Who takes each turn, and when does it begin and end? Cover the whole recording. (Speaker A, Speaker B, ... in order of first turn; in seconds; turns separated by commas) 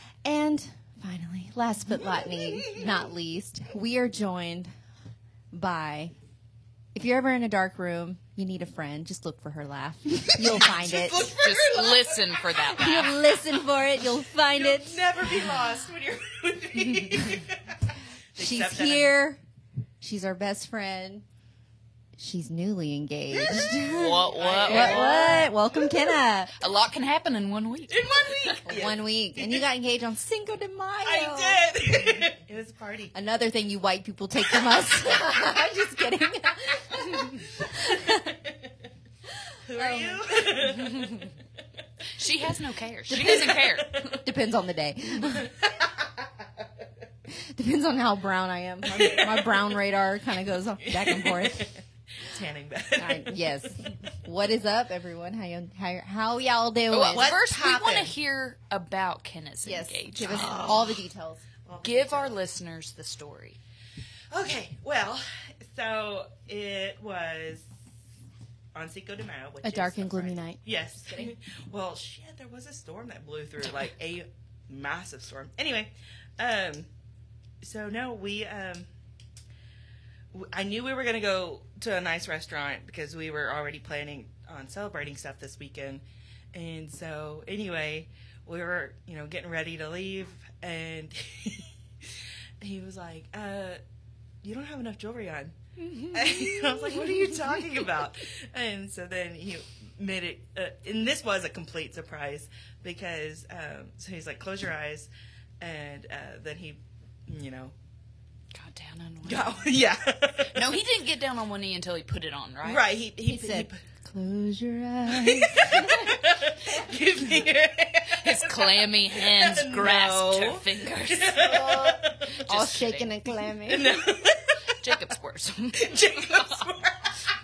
Speaker A: 0.2-4.7, Speaker B: 2.0-2.9, Speaker A: 5.5-6.1, Speaker A: 7.0-11.4, Speaker B: 10.2-12.3, Speaker C: 11.3-13.2, Speaker A: 12.6-15.1, Speaker B: 14.5-17.8, Speaker B: 18.4-19.1, Speaker A: 18.4-19.4, Speaker A: 20.0-21.2, Speaker A: 22.2-26.6, Speaker B: 23.4-26.1, Speaker C: 23.8-25.5, Speaker C: 26.6-28.6, Speaker B: 27.9-29.6, Speaker A: 28.6-32.3, Speaker B: 31.0-33.1, Speaker A: 33.1-38.4, Speaker B: 39.7-41.2, Speaker A: 39.7-41.2, Speaker C: 42.2-44.2, Speaker A: 43.1-45.5, Speaker B: 45.5-46.1, Speaker A: 47.3-51.7, Speaker B: 48.9-49.6, Speaker B: 50.9-53.5, Speaker A: 53.0-57.3, Speaker C: 56.9-60.6, Speaker B: 57.1-58.1, Speaker A: 59.6-61.5, Speaker B: 60.2-61.0, Speaker B: 61.6-62.4, Speaker C: 61.8-63.6, Speaker B: 64.3-67.7, Speaker B: 68.7-76.9, Speaker A: 69.6-71.3, Speaker B: 77.6-78.9, Speaker B: 80.3-93.8, Speaker B: 94.4-105.1, Speaker A: 96.3-96.6, Speaker B: 105.6-107.8, Speaker C: 108.5-109.5, Speaker B: 109.2-110.7, Speaker C: 110.5-112.8, Speaker B: 112.6-113.8, Speaker A: 113.3-116.9, Speaker B: 115.1-122.3, Speaker C: 118.1-121.7, Speaker A: 121.4-124.0, Speaker C: 122.3-123.2, Speaker B: 123.7-124.8, Speaker C: 124.7-126.7, Speaker B: 125.8-127.1